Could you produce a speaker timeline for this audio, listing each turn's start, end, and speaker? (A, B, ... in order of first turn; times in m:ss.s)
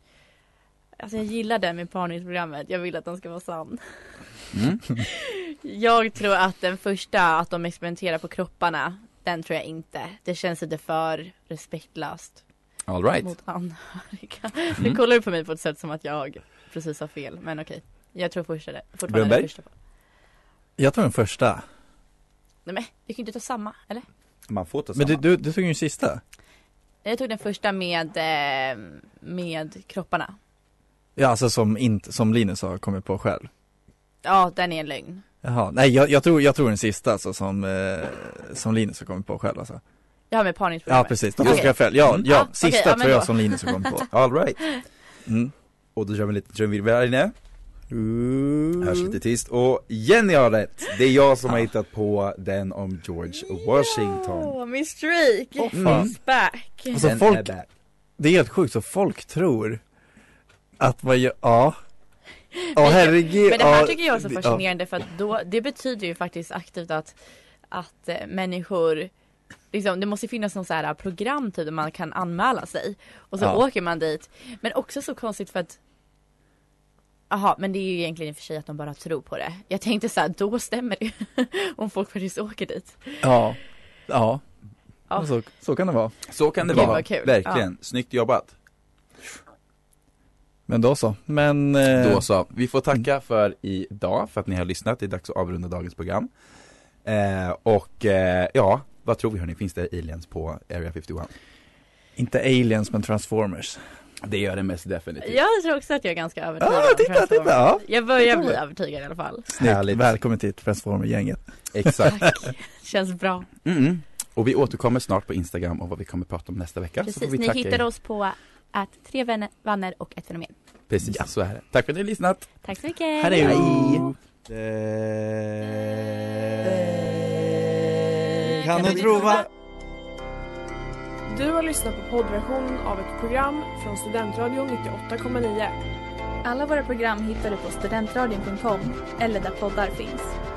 0:01.0-0:04.2 A
0:04.5-0:04.9 B
0:05.0-0:12.4 A
0:12.9-0:13.3 B
0:13.2-0:19.7 A
0:19.1-0:19.5 B
0:20.8-0:21.6 C
0:22.6-0:24.0 A
0:24.5-0:25.2 B
0:24.9-0:26.2 C
0:27.0-0:30.4 A
0:31.2-0:33.5 C
0:34.2-0:35.2 A
0:35.4-0:39.8 C
0:40.3-0:44.0 A
0:40.9-0:44.0 C
0:41.4-0:42.3 B
0:44.1-0:44.7 B
0:45.2-0:45.5 C
0:46.0-0:47.3 B
0:47.9-0:49.2 C
0:48.8-0:54.6 B
0:53.4-0:57.1 A
0:55.7-0:56.1 C
0:55.7-0:56.1 B
0:56.9-0:57.5 C
0:57.0-0:57.7 B
0:58.2-0:59.8 C
1:00.8-1:01.8 C
1:02.6-1:07.2 A
1:02.7-1:04.6 C
1:07.7-1:09.1 A
1:09.7-1:15.8 A
1:17.3-1:23.4 A
1:23.2-1:24.4 C
1:25.1-1:27.0 C
1:26.3-1:28.6 B
1:26.7-1:27.6 A
1:30.7-1:32.2 C
1:31.9-1:36.3 B
1:37.0-1:41.3 B
1:42.2-1:43.8 C
1:44.2-1:45.4 B
1:45.2-1:49.4 A
1:46.6-1:48.6 C
1:49.5-1:52.0 C
1:49.6-1:50.2 B
1:51.7-1:52.4 B
1:52.0-1:53.5 A
1:53.6-1:57.8 B
1:57.0-2:00.5 A
2:00.9-2:02.6 B
2:01.0-2:01.3 C
2:02.6-2:03.6 A
2:03.2-2:07.7 C
2:03.3-2:04.0 B
2:08.3-2:09.5 C
2:08.7-2:09.4 B
2:11.3-2:15.7 D
2:16.4-2:20.4 E